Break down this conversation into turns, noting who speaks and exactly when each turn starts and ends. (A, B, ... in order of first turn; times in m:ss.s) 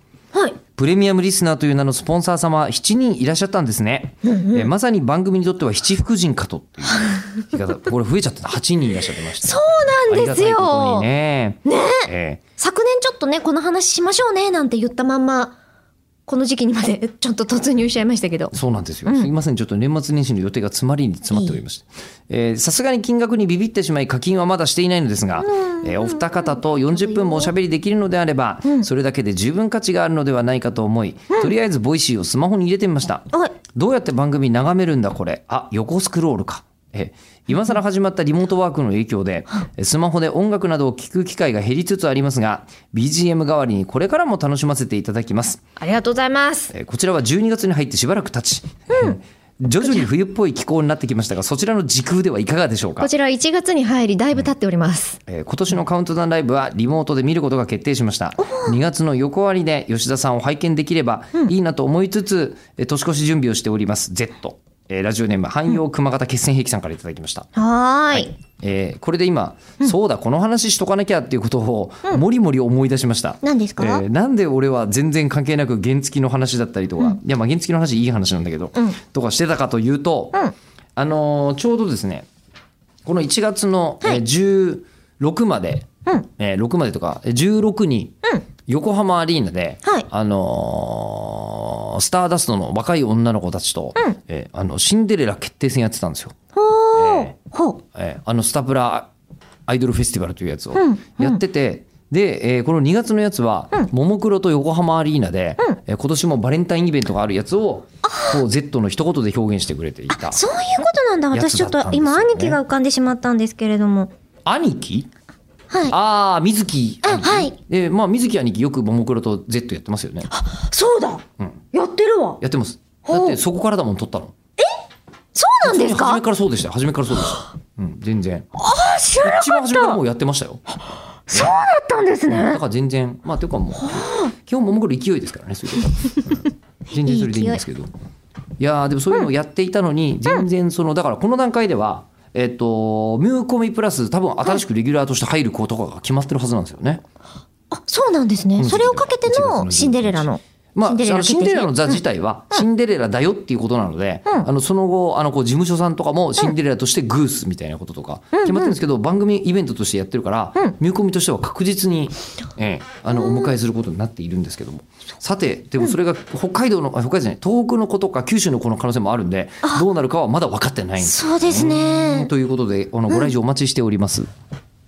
0:00.3-0:00.6 A
0:00.7-0:12.4 B
0:04.2-0:04.7 A
0:09.4-0:11.1 A
0:11.6-0:15.6 A
0:16.3-0:18.5 A
0:18.5-0:45.6 B
0:25.4-0:26.2 A
0:26.9-0:27.5 A
0:45.8-0:46.7 A
0:46.7-0:53.1 B
0:53.0-0:55.2 A
0:55.3-1:07.5 B
0:58.4-0:58.7 A
1:07.6-1:08.3 A
1:08.1-1:20.4 B
1:13.4-1:14.0 A
1:21.0-1:22.3 B
1:23.0-1:28.1 B
1:28.6-1:36.3 B
1:36.5-1:37.8 A
1:36.9-1:37.3 B
1:37.9-1:39.1 B
1:39.7-1:50.4 B
1:40.7-1:41.4 A
1:50.2-1:54.1 A
1:51.3-1:52.6 B
1:54.4-1:55.1 B
1:55.9-2:00.3 B
1:57.0-1:57.5 A
2:00.3-2:02.4 A
2:02.4-2:04.3 B
2:03.1-2:03.4 A
2:05.3-2:06.2 A
2:05.6-2:08.5 B
2:08.5-2:10.0 A
2:09.2-2:10.6 B
2:11.3-2:12.6 A
2:12.4-2:17.9 B
2:13.8-2:14.3 A
2:17.0-2:17.6 A
2:18.6-2:27.0 B
2:27.7-2:32.0 A
2:28.6-2:54.3 B
2:38.3-2:38.8 A
2:51.0-2:52.3 A